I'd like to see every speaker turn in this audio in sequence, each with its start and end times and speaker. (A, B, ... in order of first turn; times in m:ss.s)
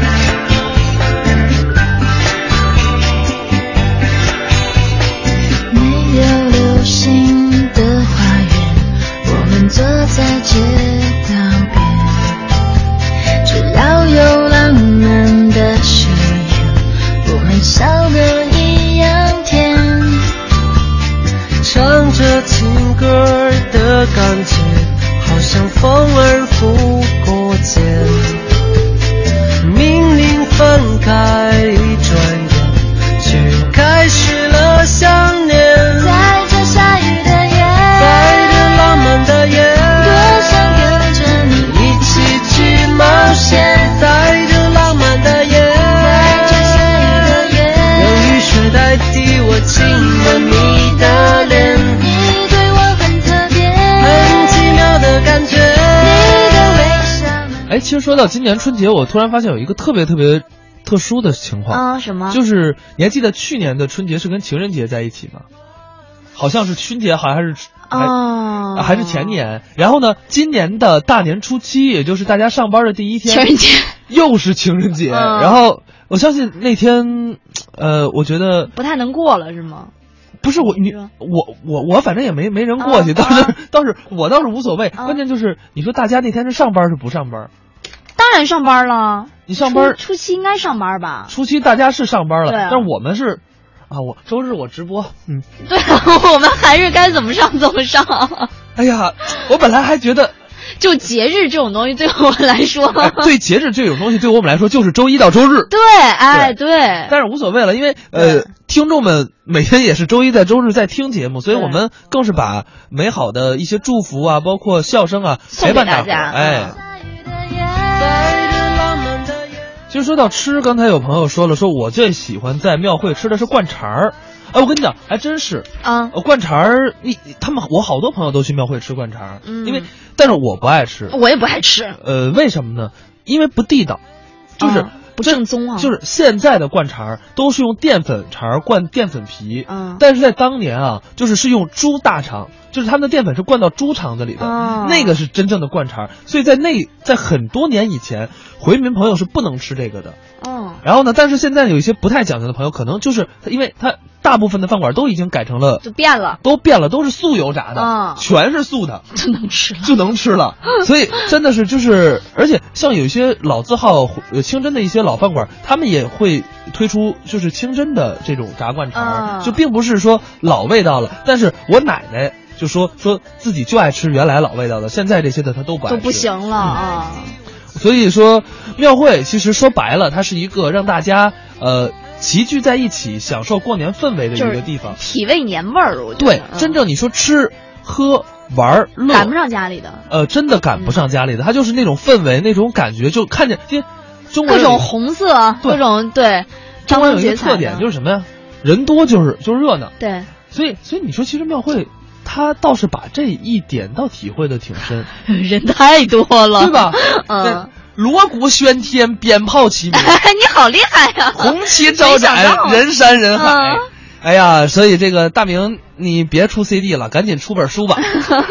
0:05.7-0:12.4 A
0:13.4-0:20.3 A
0:21.6-0:28.4 B
0:29.6-0:36.1 B
0:36.0-0:38.2 A
0:37.9-0:40.3 B
0:40.0-0:41.8 A
0:41.6-0:46.4 B
0:43.0-0:43.9 A
0:45.9-0:48.3 A
0:47.9-0:52.0 B
0:50.9-0:54.2 A
0:54.0-0:56.1 B
0:56.0-0:57.6 A
0:57.7-1:05.4 C
1:01.7-1:02.4 D
1:06.4-1:08.2 C
1:07.9-1:09.4 D
1:08.7-1:13.5 C
1:13.3-1:13.9 D
1:14.1-1:18.7 C
1:15.1-1:15.6 D
1:18.7-1:19.9 D
1:20.4-1:27.5 C
1:20.6-1:21.1 D
1:22.8-1:23.5 D
1:28.2-1:31.3 D
1:29.5-1:30.0 C
1:31.3-1:35.4 C
1:32.5-1:32.8 D
1:35.7-1:38.5 D
1:38.8-1:40.3 C
1:40.8-1:43.3 D
1:43.0-1:45.7 C
1:45.7-1:47.1 D
1:46.3-1:46.6 C
1:47.1-1:56.7 C
1:48.2-1:48.4 D
1:51.5-1:51.8 D
1:55.5-1:56.7 D
1:57.2-1:57.8 A
1:57.9-1:59.6 B
1:59.9-2:11.2 C
2:05.8-2:06.1 D
2:09.4-2:09.8 D
2:11.1-2:12.0 D
2:12.0-2:14.0 C
2:14.6-2:30.2 C
2:14.6-2:15.9 D
2:19.7-2:20.0 D
2:24.4-2:25.2 D
2:30.4-2:30.8 D
2:30.8-2:35.8 C
2:35.8-2:36.4 D
2:36.4-2:39.0 C
2:37.8-2:38.2 D
2:39.2-2:39.9 D
2:39.8-2:56.8 C
2:48.9-2:49.6 D
2:55.9-2:57.3 D
2:57.7-3:05.0 C
3:04.4-3:06.7 D
3:06.2-3:09.3 C
3:09.1-3:10.0 D
3:10.1-3:14.9 C
3:14.4-3:17.8 D
3:16.9-3:19.9 C
3:20.0-3:20.3 D
3:20.5-3:25.1 C
3:25.3-3:27.7 D
3:26.6-3:30.2 C
3:29.9-3:33.8 D
3:31.4-3:38.1 C